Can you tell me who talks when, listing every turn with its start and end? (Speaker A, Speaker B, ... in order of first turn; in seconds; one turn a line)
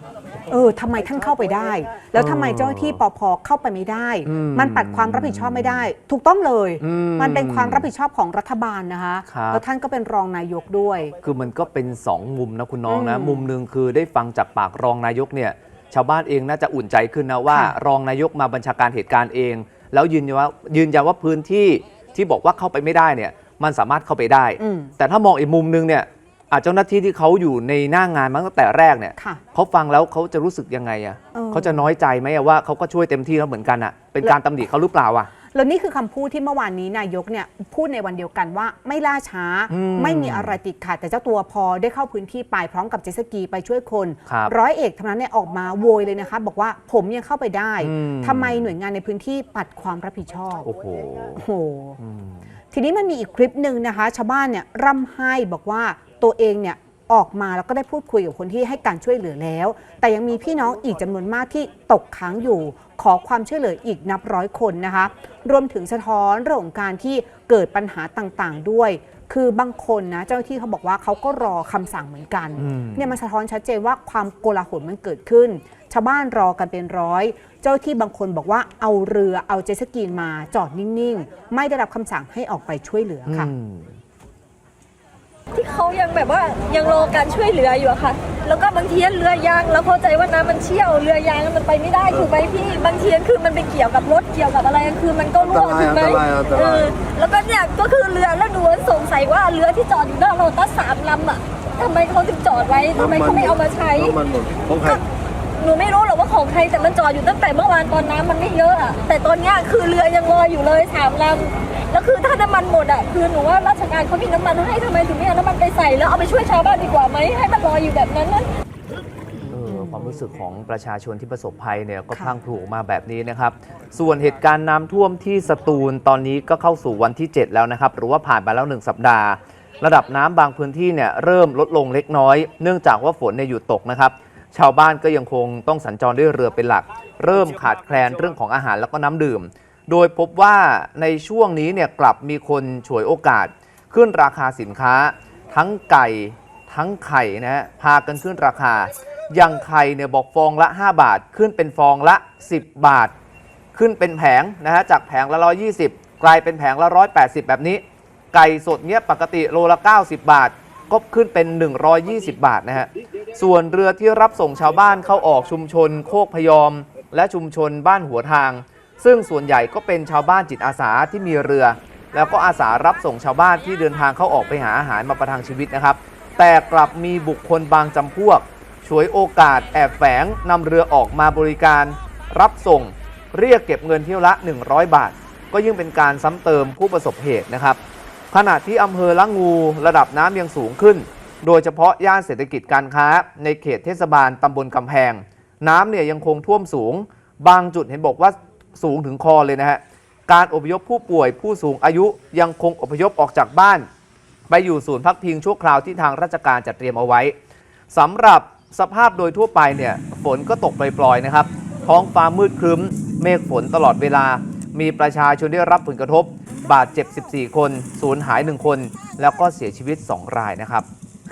Speaker A: 0.5-11.1
Speaker B: 2.1-3.0
Speaker B: 4.2-5.9
Speaker B: 6.8-7.9
Speaker B: 9.3-9.6
Speaker B: 11.2-35.3
Speaker A: 12.9-13.4
Speaker A: 17.5-17.8
Speaker A: 24.6-24.9
Speaker A: 29.2-29.4
Speaker A: 31.3-31.8
Speaker A: 35.5-50.7
Speaker B: 39.7-40.6
Speaker B: 44.3-44.5
Speaker B: 47.8-48.7
Speaker B: 50.6-51.4
Speaker A: 51.4-52.0
Speaker B: 52.0-52.5
Speaker A: 52.7-83.5
Speaker B: 72.6-73.2
Speaker B: 83.3-83.9
Speaker C: 85.5-104.2
Speaker D: 95.5-97.0
Speaker D: 103.0-103.4
Speaker D: 104.1-104.9
Speaker C: 105.6-118.5
Speaker B: 119.5-153.1
Speaker B: 153.7-187.8
Speaker B: 188.3-203.9
Speaker B: 204.5-207.3
Speaker B: 207.9-220.8